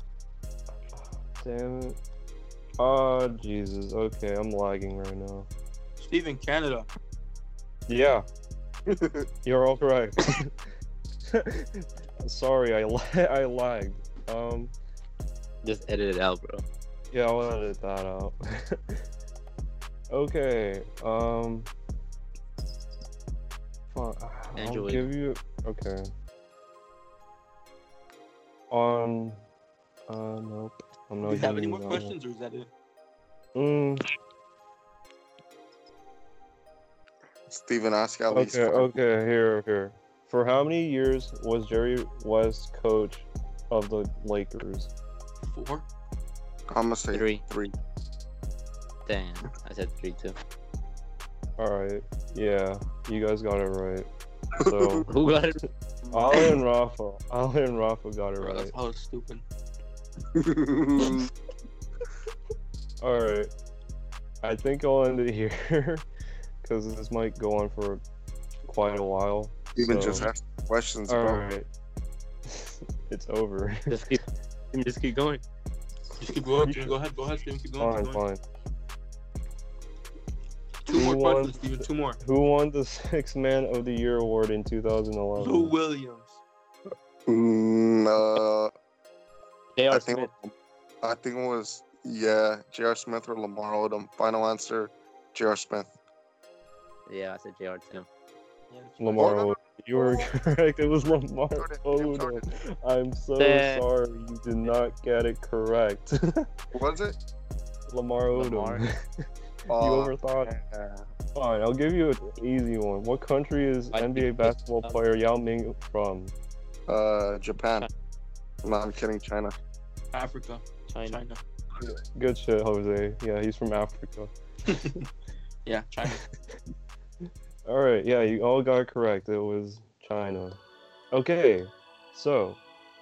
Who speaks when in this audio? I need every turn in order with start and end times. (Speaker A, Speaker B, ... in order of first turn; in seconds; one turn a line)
Speaker A: 0.9-2.0
Speaker A: 2.8-5.5
Speaker B: 6.0-6.9
Speaker A: 7.9-8.3
Speaker C: 8.9-9.3
Speaker A: 9.4-10.6
Speaker A: 11.3-14.7
Speaker D: 15.6-16.6
Speaker A: 17.1-19.0
Speaker A: 20.1-21.7
Speaker A: 23.9-26.1
Speaker D: 24.6-25.1
Speaker A: 28.7-29.4
Speaker A: 30.1-32.1
Speaker B: 31.2-32.7
Speaker A: 33.5-34.0
Speaker C: 37.5-39.0
Speaker A: 38.3-44.9
Speaker B: 45.4-45.9
Speaker C: 46.7-47.7
Speaker D: 47.1-47.4
Speaker D: 49.1-50.4
Speaker A: 51.6-54.1
Speaker C: 54.6-55.0
Speaker A: 54.6-55.1
Speaker D: 55.1-55.6
Speaker A: 56.1-58.7
Speaker B: 58.4-59.5
Speaker C: 60.3-61.3
Speaker A: 63.0-63.5
Speaker A: 64.4-66.0
Speaker A: 66.6-68.0
Speaker A: 68.7-70.3
Speaker C: 69.8-71.4
Speaker B: 70.0-70.3
Speaker A: 71.1-71.7
Speaker A: 72.5-74.0
Speaker D: 73.9-75.4
Speaker B: 76.2-78.2
Speaker A: 76.6-77.0
Speaker A: 77.8-78.4
Speaker B: 80.9-82.2
Speaker A: 80.9-85.7
Speaker B: 85.4-86.4
Speaker C: 87.3-88.7
Speaker D: 89.8-90.3
Speaker C: 89.9-95.9
Speaker D: 97.1-98.1
Speaker B: 98.7-99.3
Speaker A: 99.0-106.5
Speaker C: 99.2-100.3
Speaker C: 101.6-102.5
Speaker D: 103.4-103.8
Speaker C: 106.7-107.2
Speaker A: 107.9-110.5
Speaker D: 108.3-108.8
Speaker C: 109.7-111.1
Speaker A: 111.3-116.3
Speaker D: 113.9-115.0
Speaker C: 116.9-117.9
Speaker C: 118.6-119.5
Speaker B: 120.1-121.4
Speaker D: 120.9-121.2
Speaker A: 121.8-124.3
Speaker B: 124.7-125.0
Speaker B: 125.7-126.2
Speaker A: 127.7-130.6
Speaker A: 131.1-132.6